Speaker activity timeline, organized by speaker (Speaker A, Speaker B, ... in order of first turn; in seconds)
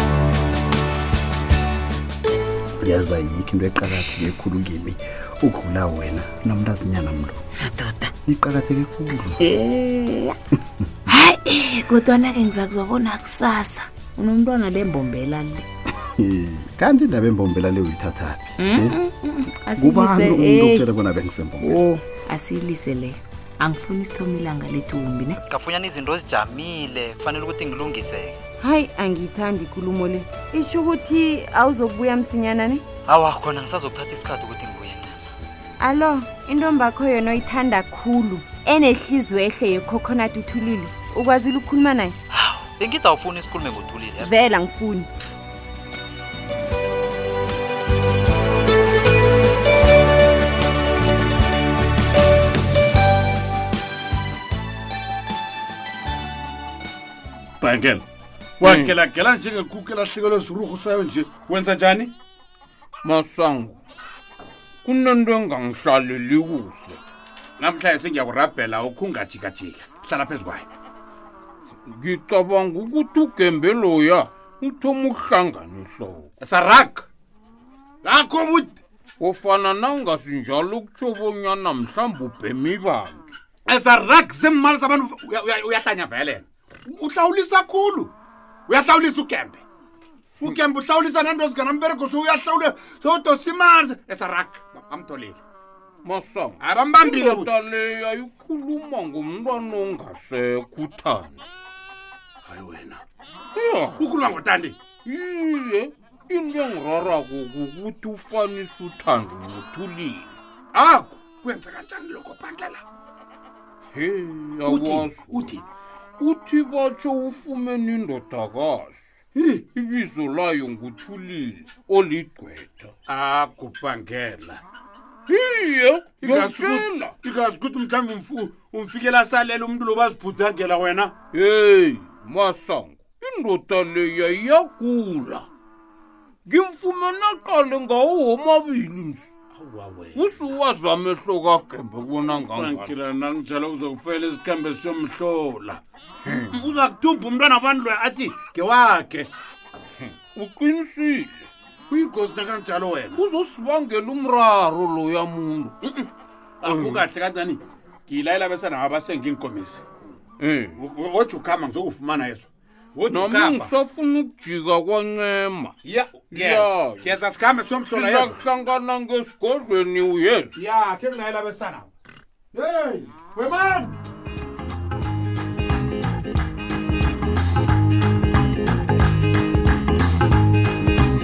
Speaker A: 2.8-7.4, 8.2-9.3, 16.2-18.9, 19.8-21.6
Speaker B: 7.8-8.0, 9.5-10.3, 11.1-15.6, 18.6-20.3, 21.6-25.4
Speaker C: 20.2-20.9, 28.6-32.9, 35.8-42.2, 44.2-45.1
Speaker D: 25.4-28.4, 33.0-35.3, 42.3-44.4
Speaker E: 57.6-58.0, 58.6-62.1, 67.6-70.7, 76.4-77.1, 78.0-78.8, 83.7-88.1, 88.7-89.6, 90.4-95.4, 96.6-97.5, 102.4-103.0, 104.0-104.8, 110.7-112.8, 114.7-115.7, 119.3-119.6, 123.1-124.6, 126.2-131.2, 139.5-140.5, 142.3-149.3, 151.9-153.2, 155.8-156.1, 156.6-159.8, 160.8-163.7, 165.8-168.4, 170.6-171.9, 172.5-174.0
Speaker F: 58.6-59.0, 63.0-63.8, 64.8-67.0, 71.9-76.3, 79.2-83.3, 96.0-101.4, 103.5-104.0, 105.0-110.3, 113.9-115.5, 116.2-119.1, 119.7-122.9, 125.3-127.1, 131.3-135.5, 136.5-139.3, 140.1-143.0, 150.0-151.5, 153.1-155.8, 156.6-157.1, 160.4-160.8, 163.1-165.8, 166.3-167.2, 167.8-170.5